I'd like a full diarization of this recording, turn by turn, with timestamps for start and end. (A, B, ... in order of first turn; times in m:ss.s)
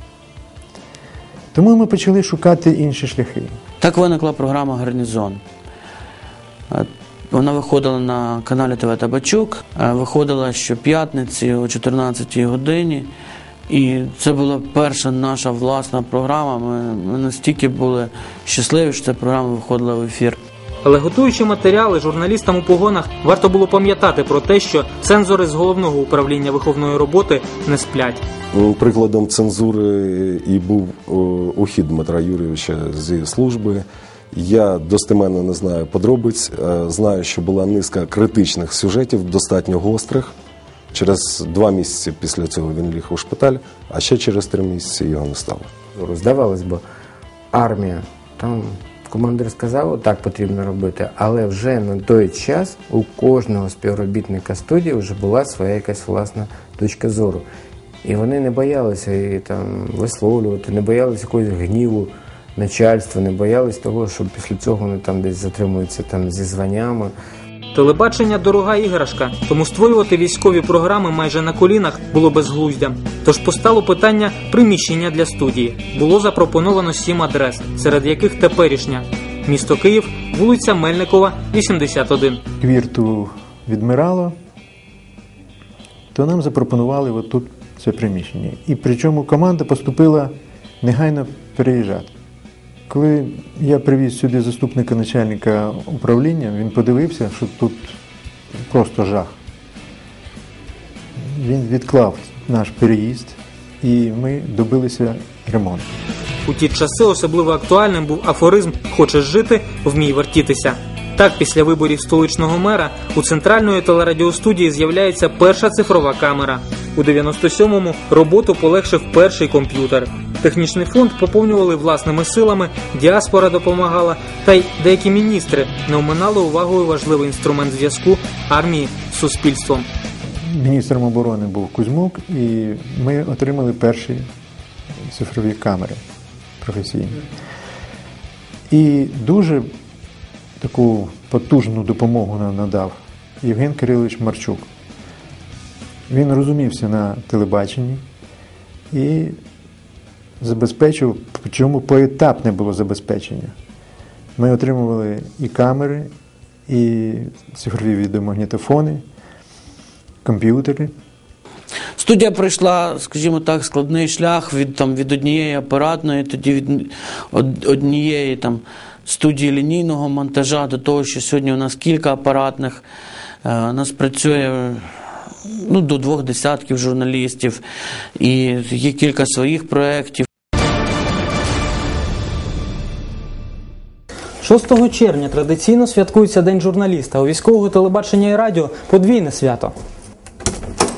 0:01.5-0:03.6 A
0:03.8-0:05.4 B
0:06.7-0:13.1 B
0:13.7-0:20.4 B
0:20.8-0:28.2 C
0:28.5-0:40.3 D
0:40.9-0:45.7 D
0:46.0-0:46.8 E
0:47.5-0:57.4 E
0:58.0-1:07.1 E
1:07.7-1:22.4 C
1:22.6-1:24.3 A
1:26.1-1:32.1 A
1:32.9-1:37.9 A
1:38.7-1:39.3 A
1:41.2-1:45.9 A
1:46.4-2:09.9 C
2:10.4-2:14.3 A
2:15.0-2:16.0 A
2:16.6-2:17.2 A
2:18.7-2:19.7 A
2:20.6-2:24.6 A
2:26.1-2:28.0 A
2:28.9-2:29.4 A
2:30.4-2:33.5 A
2:34.4-2:36.1 A
2:36.7-2:39.0 A
2:40.2-2:40.9 A
2:42.0-2:52.8 B
2:53.4-2:54.9 B
2:55.4-2:57.6 B
2:58.2-3:00.2 B
3:04.4-3:09.7 C